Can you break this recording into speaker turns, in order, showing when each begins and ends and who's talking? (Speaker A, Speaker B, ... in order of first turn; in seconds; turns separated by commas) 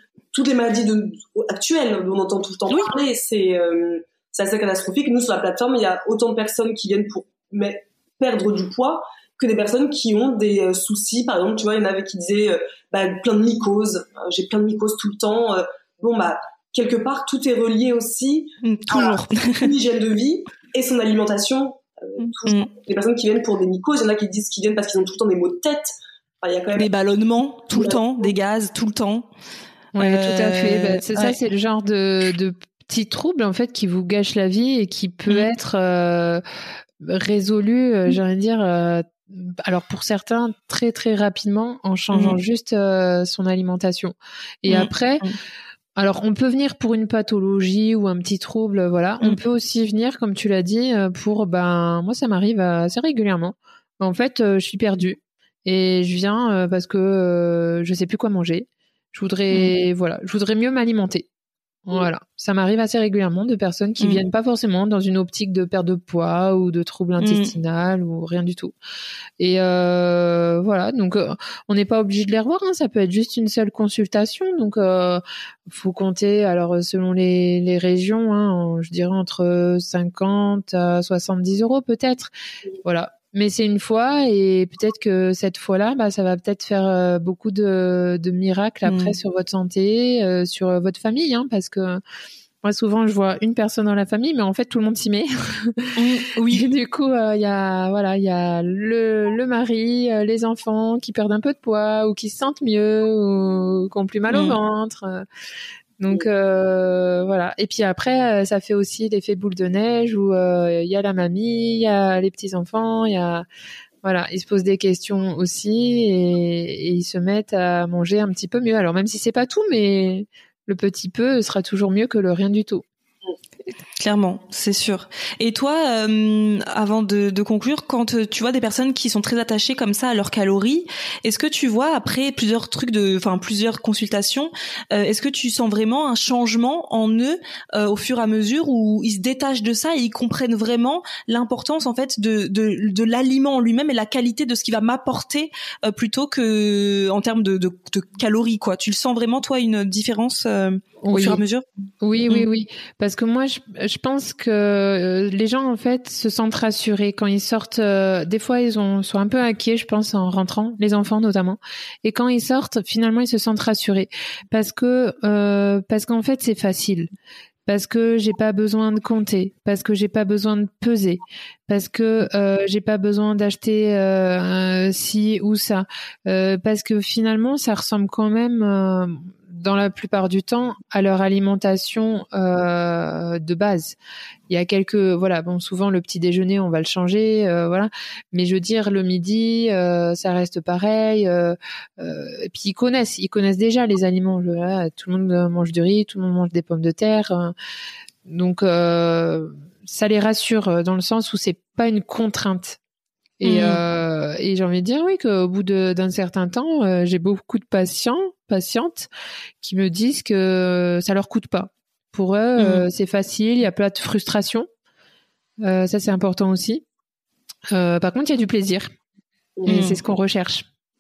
Speaker A: 0.3-26.9, Speaker B: 18.6-19.7, Speaker B: 22.2-22.7, Speaker B: 26.8-29.3, Speaker A: 27.7-28.3, Speaker C: 29.9-36.4, Speaker B: 30.0-31.4, Speaker C: 37.0-45.2, Speaker B: 42.1-42.4, Speaker B: 44.7-45.4, Speaker C: 46.0-61.3, Speaker C: 61.9-68.7, Speaker B: 67.2-67.5, Speaker C: 69.4-82.3, Speaker C: 82.8-92.0, Speaker B: 88.8-89.2, Speaker C: 92.6-96.0, Speaker B: 96.0-96.7, Speaker C: 96.5-105.2, Speaker B: 104.3-104.6, Speaker C: 106.0-113.5, Speaker C: 114.0-122.8, Speaker B: 124.0-151.6, Speaker C: 151.0-151.4, Speaker C: 152.0-167.1, Speaker C: 167.7-184.0, Speaker C: 184.5-197.5, Speaker C: 198.2-202.8, Speaker C: 203.4-209.1, Speaker B: 203.4-203.8, Speaker C: 209.6-214.7, Speaker B: 212.6-212.9, Speaker C: 215.6-216.8, Speaker C: 217.7-218.9, Speaker A: 219.6-219.8, Speaker B: 219.7-220.0, Speaker C: 219.7-220.7